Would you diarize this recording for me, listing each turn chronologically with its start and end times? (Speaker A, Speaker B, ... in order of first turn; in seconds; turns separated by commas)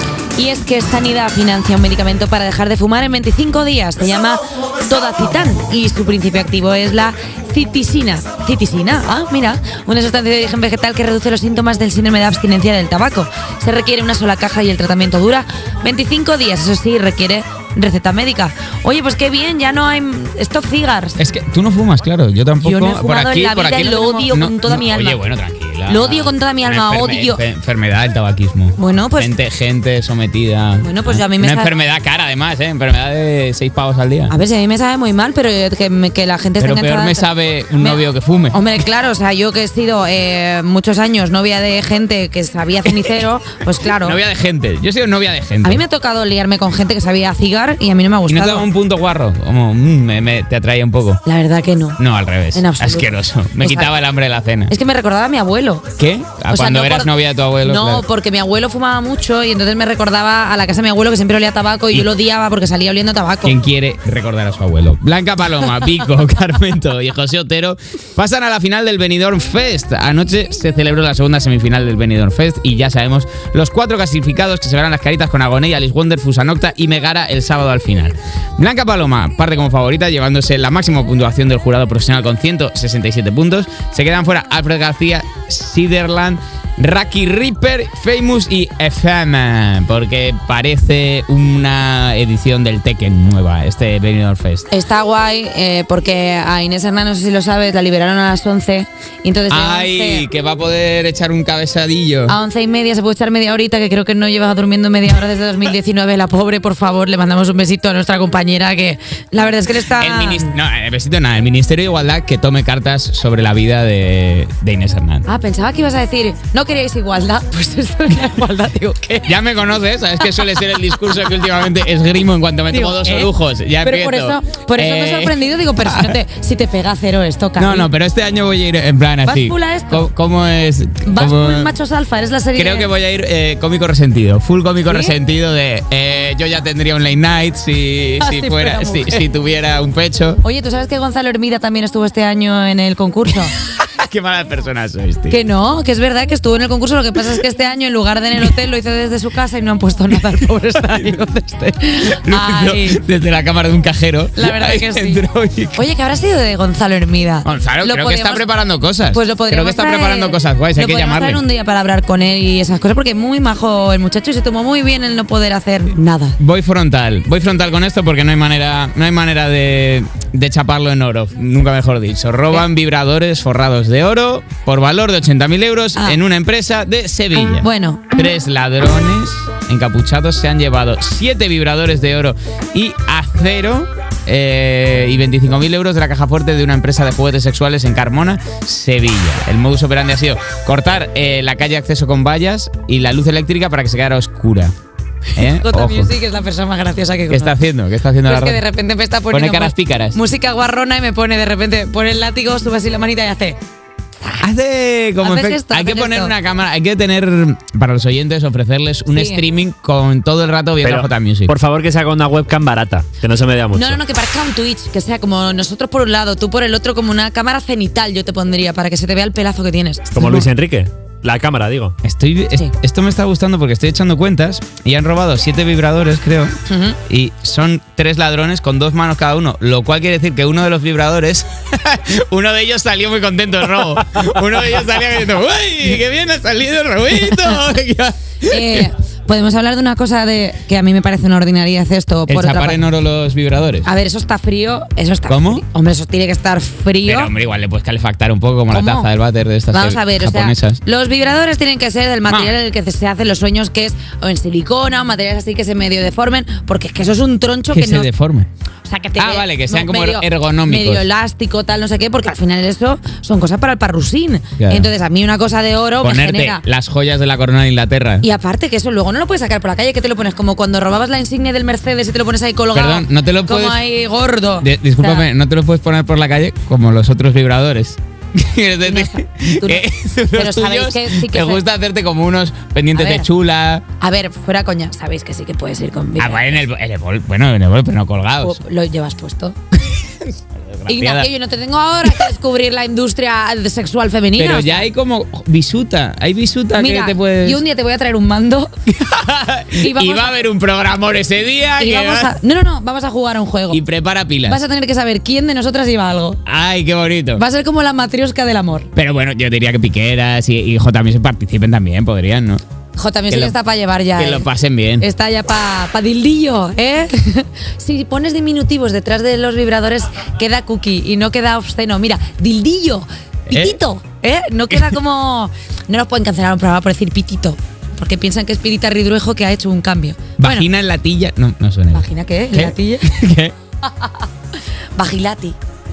Speaker A: 0.4-21.2, Speaker B: 21.2-34.3, Speaker A: 22.6-25.2, Speaker A: 25.9-27.4, Speaker A: 28.8-29.3, Speaker A: 30.8-31.7, Speaker A: 34.3-38.0, Speaker B: 36.6-38.6, Speaker A: 38.5-44.2, Speaker B: 44.0-45.8, Speaker A: 45.6-48.7, Speaker B: 48.3-51.2, Speaker A: 51.3-52.0, Speaker B: 52.0-54.7, Speaker A: 52.5-53.9, Speaker A: 54.7-55.9, Speaker B: 56.0-58.0, Speaker A: 56.5-63.6, Speaker B: 63.5-94.7, Speaker A: 94.7-100.3, Speaker B: 99.5-102.4, Speaker A: 102.3-110.6, Speaker B: 110.0-115.3, Speaker A: 115.3-119.4, Speaker B: 119.3-126.2, Speaker A: 120.2-121.5, Speaker A: 122.7-123.3, Speaker A: 123.8-127.9, Speaker B: 127.6-131.7, Speaker A: 129.2-130.1, Speaker A: 131.1-132.9, Speaker B: 132.6-140.4, Speaker A: 134.9-135.1, Speaker A: 138.2-139.3, Speaker A: 140.4-143.5, Speaker B: 143.6-145.4, Speaker A: 145.3-153.0, Speaker B: 152.1-155.8, Speaker A: 154.4-155.2, Speaker A: 155.7-158.4, Speaker B: 157.4-161.4, Speaker A: 159.1-166.4, Speaker B: 166.4-194.7, Speaker A: 177.4-178.1, Speaker B: 195.4-196.1, Speaker A: 195.4-197.6, Speaker B: 197.3-198.6, Speaker A: 198.3-203.6, Speaker B: 199.3-200.2, Speaker B: 204.4-211.5, Speaker A: 205.2-206.3, Speaker A: 209.1-209.4, Speaker C: 210.8-214.0, Speaker A: 213.7-220.4, Speaker C: 220.1-221.9, Speaker B: 222.0-226.5, Speaker A: 226.7-227.0, Speaker B: 227.1-238.9, Speaker A: 238.5-242.8, Speaker B: 242.3-243.9, Speaker A: 243.8-247.3, Speaker B: 245.3-245.6, Speaker B: 247.1-250.8, Speaker A: 248.7-249.1, Speaker A: 249.7-258.1, Speaker B: 252.3-252.5, Speaker B: 257.7-258.5, Speaker A: 258.9-266.6, Speaker B: 259.2-261.1, Speaker B: 264.6-264.9, Speaker B: 266.0-268.3, Speaker A: 268.2-275.3, Speaker B: 272.7-273.8, Speaker B: 274.6-283.8, Speaker A: 278.9-281.6, Speaker A: 282.9-283.3, Speaker A: 284.0-286.6, Speaker B: 286.2-288.6, Speaker A: 288.4-289.6, Speaker B: 289.9-291.3, Speaker A: 290.9-294.9, Speaker B: 294.4-297.6, Speaker A: 296.8-298.7, Speaker B: 298.9-302.3, Speaker A: 299.7-300.4, Speaker A: 301.8-303.8, Speaker B: 303.7-304.6, Speaker A: 304.4-306.4, Speaker B: 306.5-307.4, Speaker A: 307.4-308.9, Speaker B: 308.9-312.6, Speaker A: 313.0-314.5, Speaker B: 313.3-313.6, Speaker B: 314.2-315.1, Speaker A: 315.0-330.7, Speaker B: 323.5-323.8, Speaker B: 330.4-333.5, Speaker A: 331.9-333.1, Speaker A: 333.9-334.3, Speaker A: 335.0-335.6